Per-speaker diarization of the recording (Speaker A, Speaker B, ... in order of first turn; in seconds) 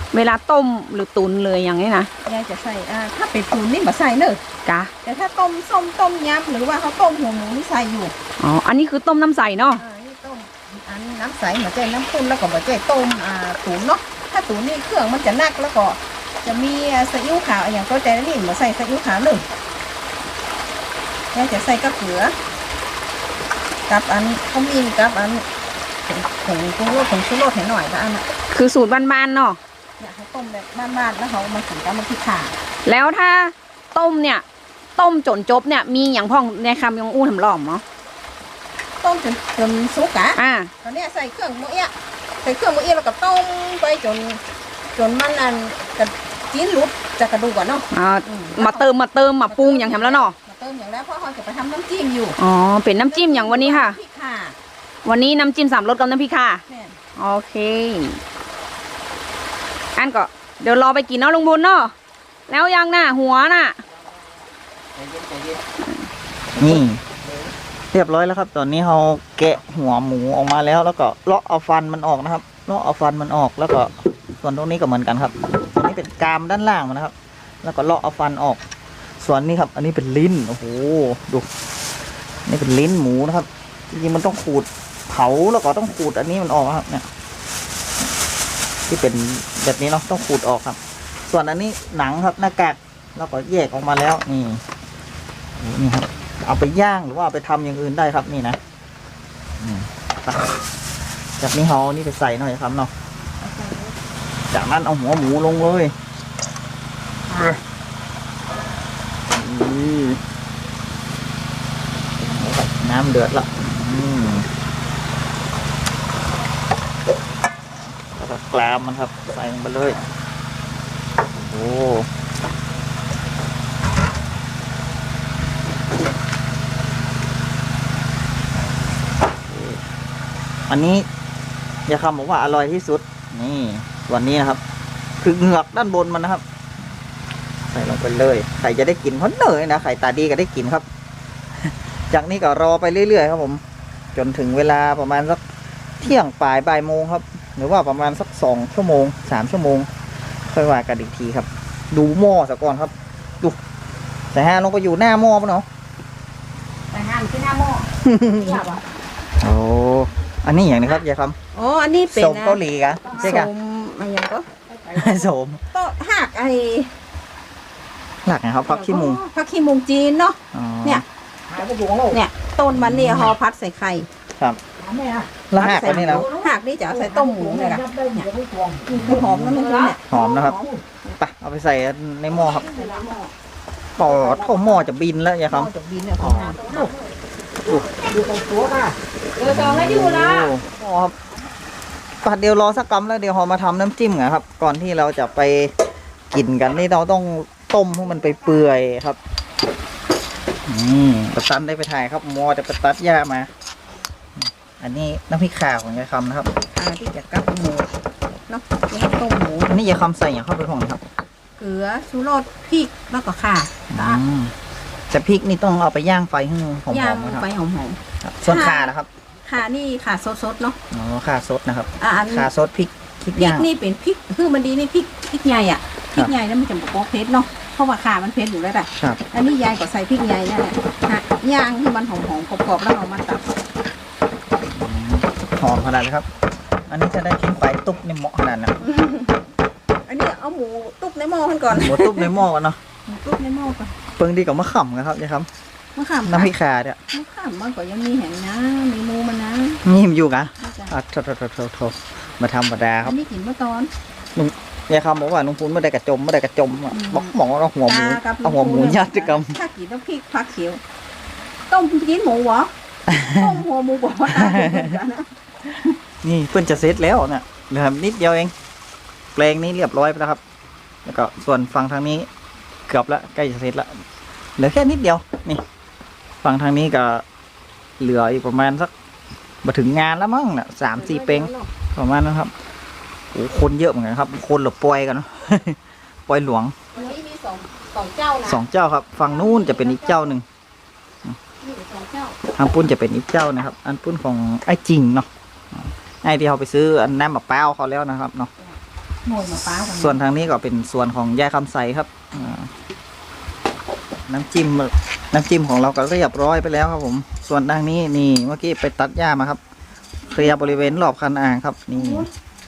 Speaker A: 0.1-2.1, 4.6-4.9, 8.4-9.8, 28.5-29.6, 32.9-34.4, 35.0-37.8, 40.4-40.7, 47.9-50.3, 52.4-54.0, 55.0-56.6, 57.1-58.2, 60.0-61.9, 62.5-63.8, 156.9-157.8, 179.5-180.0, 182.8-183.1, 188.0-188.3, 189.4-190.5, 299.2-300.2, 311.9-312.2
Speaker B: 2.2-4.4, 5.0-8.1, 9.8-19.4, 21.3-22.4, 23.9-25.4, 26.1-28.2, 30.0-32.5, 39.0-44.4, 45.0-48.9, 49.5-52.4, 53.0-54.5, 56.7-57.0, 103.5-103.8, 158.2-158.8, 161.5-165.1, 165.7-166.9, 168.7-171.0, 172.0-174.1, 175.5-180.0, 182.4-183.3, 184.1-184.5, 185.5-187.0, 206.8-207.9, 208.5-209.7, 211.6-214.2, 216.9-218.9, 219.4-220.8, 222.0-222.5, 223.3-233.5, 238.8-239.3, 240.1-242.3, 243.0-243.9, 245.9-246.5, 247.1-249.8, 250.6-250.9, 253.0-253.9, 256.9-257.3, 257.9-260.8, 261.7-265.3, 280.9-281.7, 286.9-288.6, 289.2-290.2, 291.6-292.4
Speaker C: 65.0-65.6, 66.6-67.0, 67.9-78.6, 79.2-81.5, 82.5-87.0, 88.9-94.6, 95.6-98.6, 99.6-100.6, 101.4-102.9, 104.5-105.9, 107.3-107.6, 109.3-110.2, 112.2-114.5, 118.1-120.0, 121.3-122.1, 129.4-129.8, 130.7-131.1, 131.9-134.6, 135.2-136.4, 137.7-140.8, 141.6-143.6, 144.1-145.4, 146.0-149.9, 150.4-153.6, 154.3-155.7, 158.0-158.6, 159.4-161.4, 162.1-163.5, 164.9-165.6, 168.2-169.2, 170.5-171.0, 172.7-173.3, 175.5-176.3, 178.9-179.6, 180.1-182.7, 183.9-186.8, 189.4-191.1, 192.2-195.8, 196.3-199.2, 200.7-203.5, 204.4-206.5, 209.7-211.1, 213.9-214.5, 215.1-217.4, 218.2-219.1, 220.9-223.7, 234.6-236.2, 236.9-238.7, 241.7-242.8, 244.2-245.5, 246.2-247.0, 249.8-253.1, 254.3-259.6, 263.1-263.6, 264.3-265.0, 266.2-268.5, 269.4-270.4, 271.0-272.3, 272.9-274.0, 274.6-275.6, 276.4-277.2, 278.0-278.9, 279.6-282.5, 283.3-286.7, 288.4-290.4, 292.6-298.5, 299.9-302.7, 304.3-309.6, 310.3-312.2